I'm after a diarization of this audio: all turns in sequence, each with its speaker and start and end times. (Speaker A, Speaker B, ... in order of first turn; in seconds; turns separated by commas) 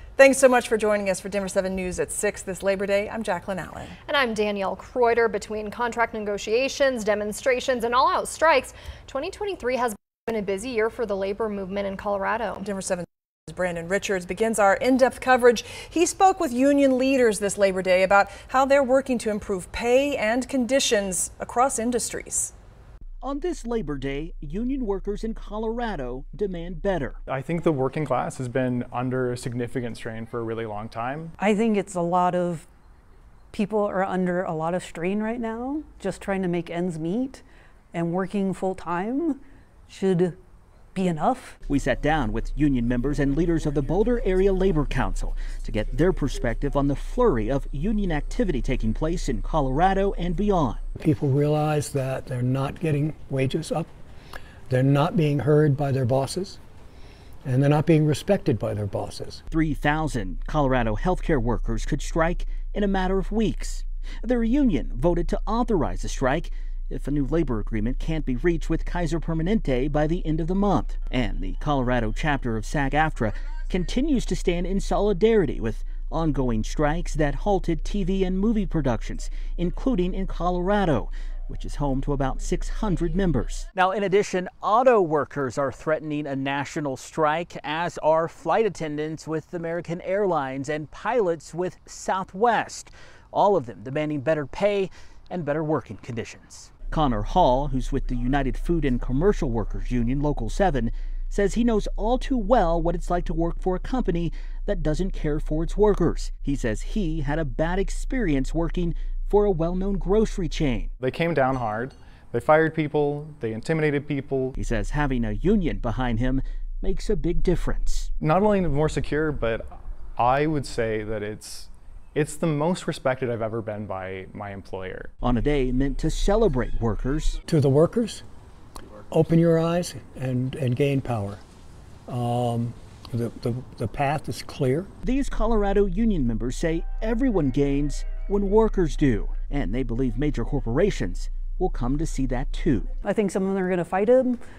Speaker A: 0.2-4.0, Speaker B: 4.1-12.7, Speaker A: 12.6-22.5, Speaker C: 23.2-27.2, Speaker D: 27.3-31.3, Speaker E: 31.4-32.7, Speaker E: 33.5-40.4, Speaker E: 40.9-41.6, Speaker C: 41.7-50.8, Speaker F: 51.0-53.9, Speaker F: 54.7-56.6, Speaker F: 57.4-59.4, Speaker C: 59.5-110.9, Speaker D: 111.0-114.5, Speaker C: 114.5-118.1, Speaker D: 118.2-125.1, Speaker C: 125.2-127.4, Speaker F: 127.5-128.2, Speaker F: 129.1-131.4, Speaker F: 132.1-134.9, Speaker C: 135.0-142.9, Speaker E: 143.0-144.4